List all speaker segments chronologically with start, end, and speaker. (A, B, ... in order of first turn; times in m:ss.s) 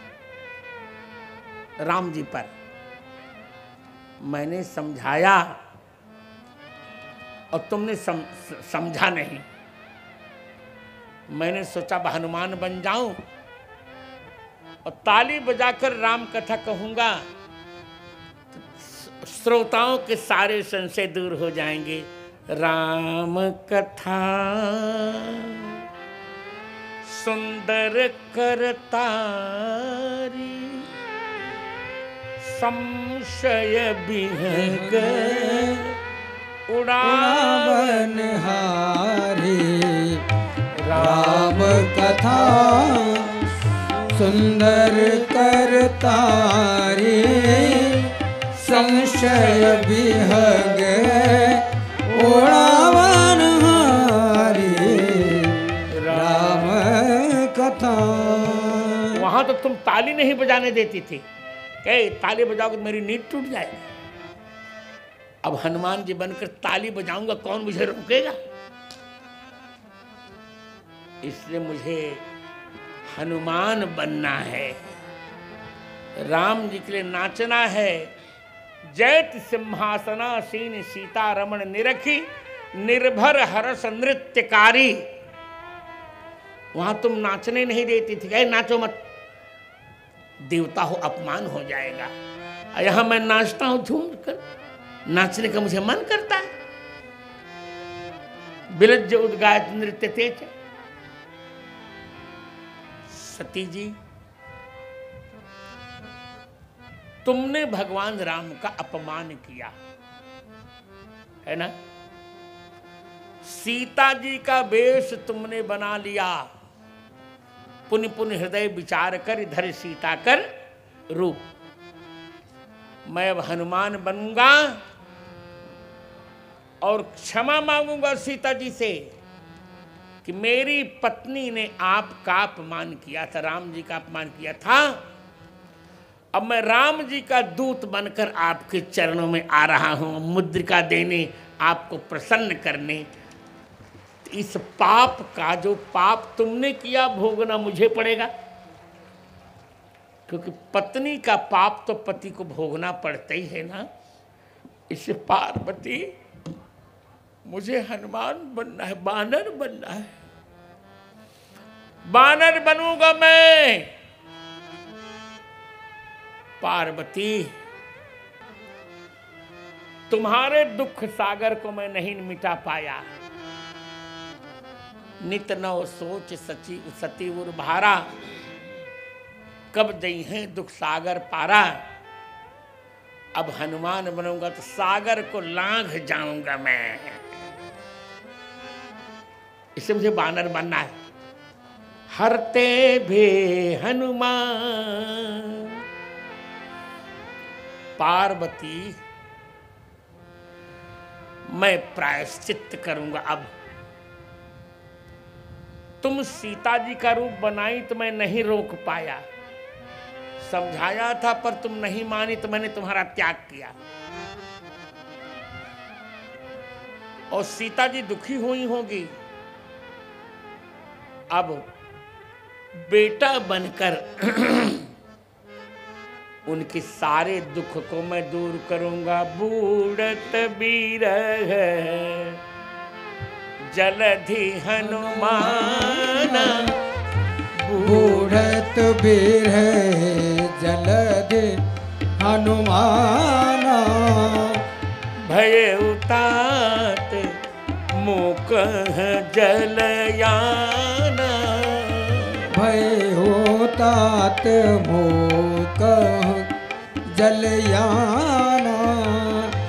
0:01.8-0:02.5 A
0:04.2-0:05.5 A
0:07.5-0:09.4 A
0:11.3-0:13.2 A
0:14.8-0:17.3 A
0:18.5-0:25.8 A
0:27.0-0:30.9 A
0:32.4-0:36.0 A
0:34.5-0:35.8 B
0:36.7-0:38.1 A
0:37.0-0:40.2 B
0:40.7-0:41.8 A
0:41.0-0:43.4 B
0:44.1-0:55.6 B
0:49.2-0:49.6 A
0:55.9-0:56.8 A
0:56.1-0:59.2 B
0:59.1-1:01.2 A
1:01.8-1:03.9 A
1:05.4-1:08.4 A
1:11.2-1:12.2 A
1:13.1-1:14.8 A
1:16.2-1:18.1 A
1:18.8-1:25.1 A
1:26.7-1:29.0 A
1:30.4-1:32.1 A
1:32.8-1:34.4 A
1:35.1-1:36.5 A
1:38.7-1:40.5 A
1:43.1-1:44.0 A
1:47.2-1:49.7 A
1:51.4-1:51.8 A
1:53.4-1:56.5 A
1:57.9-2:00.5 A
2:01.1-2:01.4 A
2:03.1-2:04.8 A
2:06.8-2:09.1 A
2:10.2-2:15.0 A
2:16.3-2:23.1 A
2:24.2-2:28.3 A
2:30.3-2:33.9 A
2:34.9-2:36.1 A
2:37.4-2:40.2 A
2:42.1-2:43.9 A
2:46.6-2:47.5 A
2:50.1-2:53.1 A
2:55.2-2:58.1 A
2:59.7-3:01.8 A
3:03.4-3:07.2 A
3:09.8-3:10.9 A
3:12.1-3:15.8 A
3:18.0-3:19.0 A
3:21.5-3:23.5 A
3:26.0-3:29.2 A
3:30.4-3:33.8 A
3:37.3-3:39.1 A
3:41.3-3:41.7 A
3:42.8-3:44.8 A
3:46.5-3:52.4 A
3:53.7-3:56.8 A
3:54.8-3:56.8 B
3:57.6-3:58.6 A
3:57.8-4:01.6 B
4:02.2-4:04.6 B
4:05.2-4:07.4 A
4:07.9-4:12.5 A
4:12.5-4:16.5 B
4:17.1-4:19.5 B